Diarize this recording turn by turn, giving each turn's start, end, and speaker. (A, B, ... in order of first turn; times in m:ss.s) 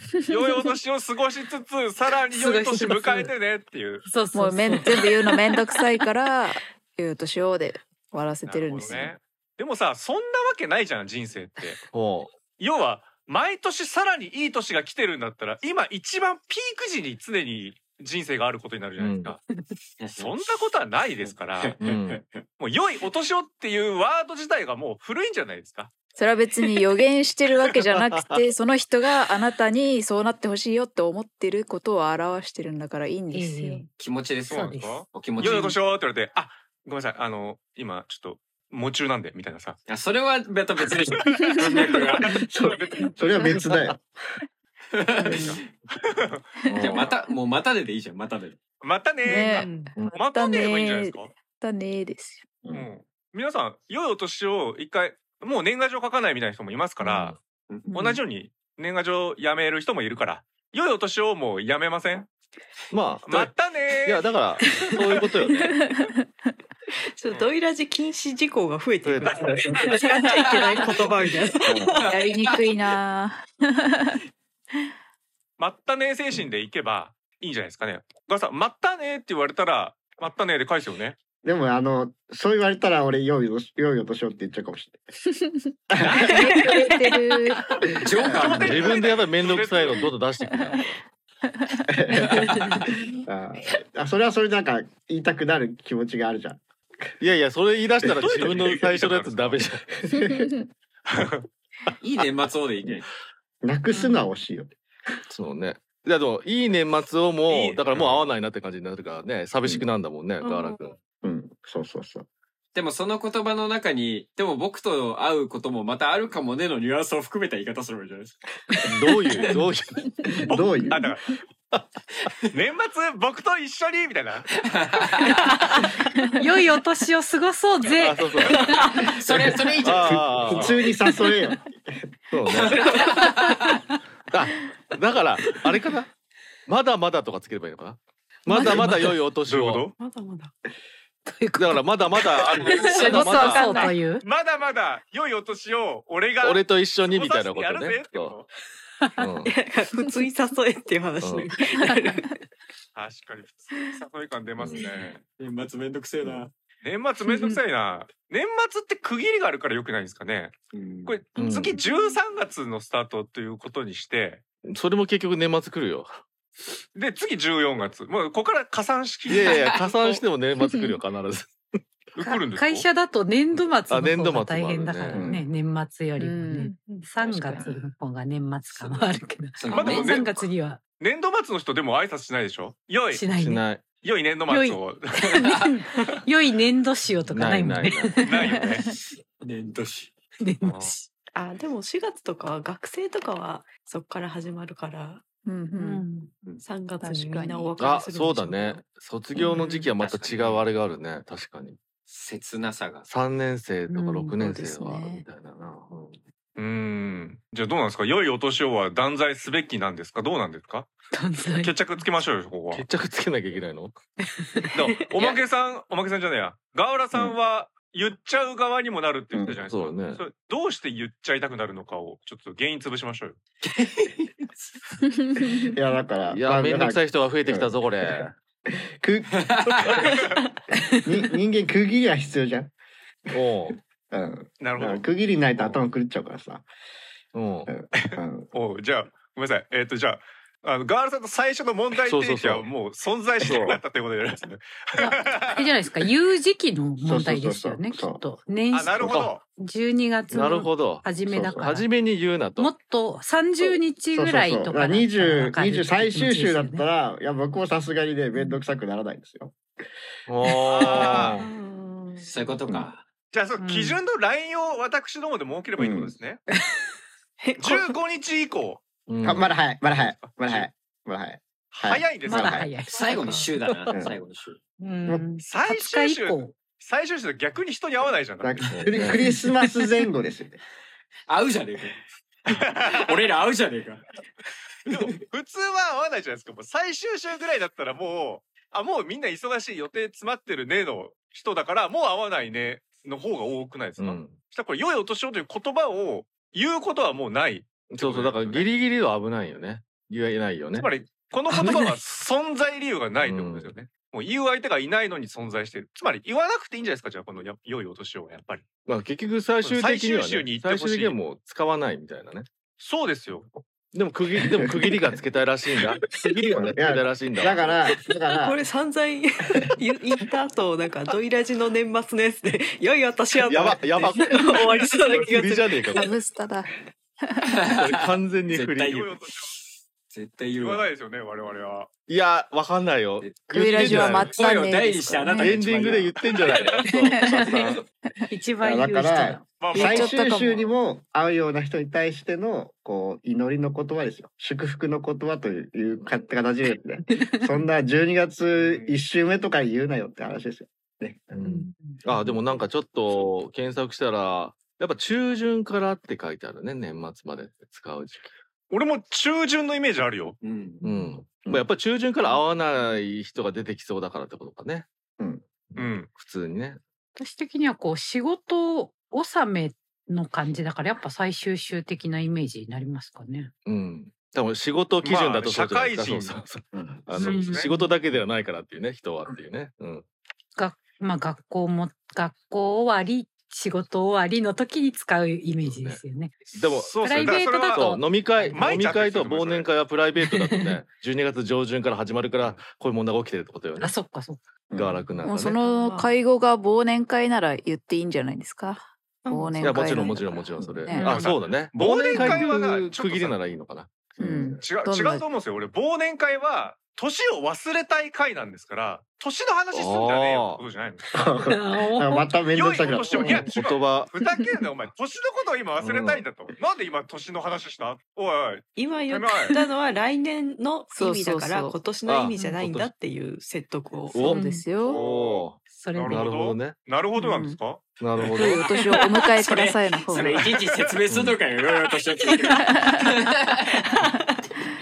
0:00.3-0:04.0 A
0:02.3-0:03.3 B
0:04.0-0:05.4 B
0:04.3-0:09.2 C
0:08.4-0:11.8 A
0:11.9-0:12.4 D
0:12.6-0:19.4 A
0:19.0-0:19.4 D
0:20.0-0:20.4 E
0:20.1-0:21.8 A
0:21.2-0:22.4 E
0:21.8-0:22.2 D
0:22.6-0:25.9 A
0:26.2-0:33.8 C
0:27.9-0:28.4 D
0:33.3-0:33.9 B
0:34.0-0:35.8 E
0:34.5-0:39.8 A
0:34.5-0:35.7 B
0:39.9-0:42.3 E
0:41.4-0:43.1 A
0:42.4-0:44.0 F
0:45.0-0:45.5 E
0:45.3-0:46.4 A
0:46.7-0:47.1 D
0:46.7-0:47.1 C
0:46.8-0:48.6 E
0:48.8-0:51.3 A
0:49.2-0:52.5 C
0:49.6-0:49.9 G
0:52.6-0:52.9 F
0:52.7-0:57.4 A
0:57.0-0:57.4 D
0:57.9-0:58.2 C
0:57.9-1:02.3 A
1:02.9-1:03.5 D
1:03.3-1:04.2 A
1:04.0-1:05.7 D
1:04.6-1:05.3 G
1:05.7-1:06.1 C
1:07.2-1:12.1 G
1:09.0-1:09.8 D
1:10.2-1:10.7 E
1:11.6-1:12.0 F
1:12.1-1:14.2 C
1:15.6-1:21.2 A
1:21.4-1:25.0 F
1:25.9-1:26.7 F
1:26.1-1:26.7 E
1:26.1-1:27.7 C
1:28.0-1:28.7 E
1:28.0-1:29.0 F
1:28.2-1:30.1 A
1:28.5-1:31.0 D
1:31.9-1:36.6 F
1:32.3-1:32.6 E
1:37.2-1:39.8 D
1:38.1-1:39.7 A
1:39.9-1:40.5 F
1:41.1-1:41.5 A
1:42.0-1:43.1 E
1:43.6-1:44.7 F
1:44.0-1:44.3 B
1:45.3-1:51.0 D
1:47.5-1:48.3 A
1:50.4-1:50.8 G
1:51.2-1:52.3 F
1:52.8-1:58.4 E
1:58.9-2:00.0 D
1:59.0-1:59.6 G
2:00.4-2:01.1 F
2:00.5-2:01.3 A
2:02.5-2:04.6 A
2:04.7-2:05.4 E
2:06.4-2:08.9 B
2:08.0-2:08.6 D
2:08.8-2:10.8 E
2:09.2-2:10.7 D
2:09.8-2:12.0 F
2:12.3-2:12.8 D
2:12.5-2:13.3 G
2:12.6-2:13.8 E
2:14.3-2:16.1 D
2:16.7-2:19.9 D
2:18.5-2:19.2 B
2:19.4-2:19.9 A
2:20.0-2:20.5 G
2:21.3-2:24.2 B
2:21.6-2:23.8 D
2:22.6-2:23.3 E
2:22.8-2:23.9 G
2:23.5-2:28.5 A
2:26.4-2:28.4 D
2:29.0-2:29.3 B
2:29.2-2:29.5 D
2:29.4-2:32.4 G
2:31.2-2:31.5 D
2:33.0-2:35.2 A
2:34.6-2:35.0 D
2:35.4-2:36.5 E
2:36.8-2:44.4 A
2:40.7-2:41.2 E
2:41.4-2:41.8 D
2:44.7-2:46.1 D
2:47.0-2:50.2 A
2:49.3-2:51.5 D
2:49.6-2:49.9 E
2:50.6-2:51.0 C
2:52.2-2:52.8 A
2:52.2-3:00.8 B
2:53.9-2:55.3 D
2:55.1-2:55.4 F
2:56.2-2:56.7 C
2:56.6-2:57.1 G
2:57.2-2:57.8 E
2:58.8-2:59.1 E
2:59.6-3:00.3 E
2:59.7-3:03.3 A
3:03.1-3:03.6 B
3:03.3-3:03.9 D
3:04.0-3:05.3 A
3:04.5-3:08.6 B
3:07.3-3:08.1 D
3:08.2-3:08.9 A
3:08.5-3:08.8 C
3:09.4-3:10.1 E
3:10.4-3:11.1 B
3:10.6-3:11.0 A
3:11.3-3:15.2 G
3:15.4-3:16.0 C
3:15.8-3:16.3 B
3:16.6-3:18.8 G
3:17.0-3:17.7 C
3:17.8-3:21.8 D
3:19.5-3:19.9 B
3:20.0-3:20.6 E
3:22.1-3:23.0 E
3:23.0-3:26.1 D
3:23.9-3:24.3 B
3:24.4-3:25.2 G
3:26.6-3:30.9 A
3:31.1-3:31.8 B
3:31.5-3:32.8 A
3:32.7-3:34.0 D
3:34.7-3:43.4 A
3:35.2-3:35.4 E
3:39.5-3:40.2 D
3:43.7-3:44.1 E
3:45.2-3:45.5 C
3:45.6-3:49.9 F
3:46.3-3:48.3 D
3:49.3-3:50.1 E
3:50.2-3:50.5 G
3:51.0-3:52.7 F
3:53.3-3:53.8 D
3:54.1-3:56.7 F
3:54.6-3:55.8 A
3:57.3-3:57.7 D
3:57.7-3:58.5 F
3:58.0-4:05.8 A
4:02.0-4:02.7 D
4:03.4-4:03.8 D
4:05.0-4:11.9 B
4:07.0-4:08.2 F
4:08.7-4:09.4 A
4:09.1-4:09.4 D
4:10.3-4:11.1 D
4:11.2-4:11.7 F
4:11.6-4:12.7 D
4:12.6-4:16.9 B
4:13.6-4:19.6 F
4:20.3-4:21.5 D
4:20.6-4:21.4 A
4:20.8-4:22.6 G
4:22.2-4:23.0 E
4:23.3-4:26.4 A
4:23.6-4:24.0 B
4:25.8-4:26.2 F
4:27.4-4:27.9 G
4:27.6-4:28.8 A
4:29.1-4:29.7 D
4:29.2-4:32.7 F
4:29.9-4:30.7 A
4:31.7-4:32.7 A
4:32.2-4:33.5 B
4:33.0-4:34.6 E
4:33.6-4:33.9 D
4:34.8-4:36.6 B
4:35.4-4:38.6 A
4:38.4-4:40.6 F
4:38.7-4:39.2 D
4:39.1-4:39.9 B
4:41.3-4:42.0 E
4:42.5-4:43.1 A
4:42.9-4:44.0 E
4:44.9-4:58.7 A
4:54.0-4:54.4 D
4:57.9-5:00.9 D
5:00.8-5:08.6 A
5:01.5-5:01.9 D
5:03.2-5:03.7 D
5:08.8-5:12.5 D
5:09.6-5:11.2 A
5:12.8-5:13.5 A
5:13.9-5:17.7 D
5:14.4-5:15.1 F
5:16.5-5:18.6 F
5:18.3-5:26.2 G
5:23.4-5:26.1 D
5:25.9-5:26.7 C
5:27.6-5:30.9 E
5:27.8-5:29.1 D
5:28.9-5:29.5 A
5:30.6-5:31.9 A
5:32.1-5:34.4 D
5:33.5-5:35.7 C
5:34.3-5:36.7 E
5:35.3-5:37.6 D
5:36.8-5:37.8 C
5:37.5-5:37.8 E
5:38.3-5:39.5 B
5:38.6-5:51.5 F
5:39.6-5:40.2 A
5:39.7-5:40.7 C
5:47.1-5:47.6 B
5:48.6-5:49.0 A
5:51.3-5:58.3 D
5:51.4-5:52.6 B
5:58.7-6:00.4 A
6:00.4-6:00.8 E
6:00.8-6:01.1 B
6:00.8-6:04.9 D
6:05.7-6:06.8 D
6:05.8-6:06.1 A
6:07.2-6:13.5 B
6:13.7-6:20.0 D
6:15.0-6:16.4 A
6:16.7-6:17.0 F
6:17.1-6:17.9 B
6:17.2-6:17.7 A
6:20.6-6:28.7 B
6:25.6-6:27.0 D
6:26.5-6:28.0 A
6:27.7-6:34.0 D
6:28.5-6:29.7 A
6:30.2-6:30.8 B
6:33.8-6:34.4 B
6:34.7-6:35.0 F
6:34.7-6:35.6 D
6:35.2-6:41.1 C
6:35.6-6:36.2 G
6:39.2-6:40.3 G
6:39.6-6:43.9 D
6:40.9-6:41.2 G
6:41.0-6:43.4 A
6:44.2-6:44.6 F
6:44.2-6:45.2 C
6:44.6-6:51.2 A
6:49.7-6:50.6 D
6:51.1-6:53.5 F
6:51.4-6:52.4 B
6:52.5-6:59.6 A
6:53.3-6:54.1 D
6:55.8-6:56.2 D
6:58.8-7:04.3 G
7:00.9-7:01.8 C
7:02.1-7:02.9 D
7:02.3-7:02.6 B
7:04.1-7:06.8 D
7:04.1-7:05.0 C
7:04.2-7:04.7 B
7:04.8-7:08.0 A
7:05.7-7:06.2 B
7:07.2-7:07.6 C
7:08.0-7:08.7 D
7:08.2-7:13.8 E
7:08.4-7:10.4 C
7:10.3-7:10.9 A
7:11.1-7:11.4 D
7:14.0-7:14.3 G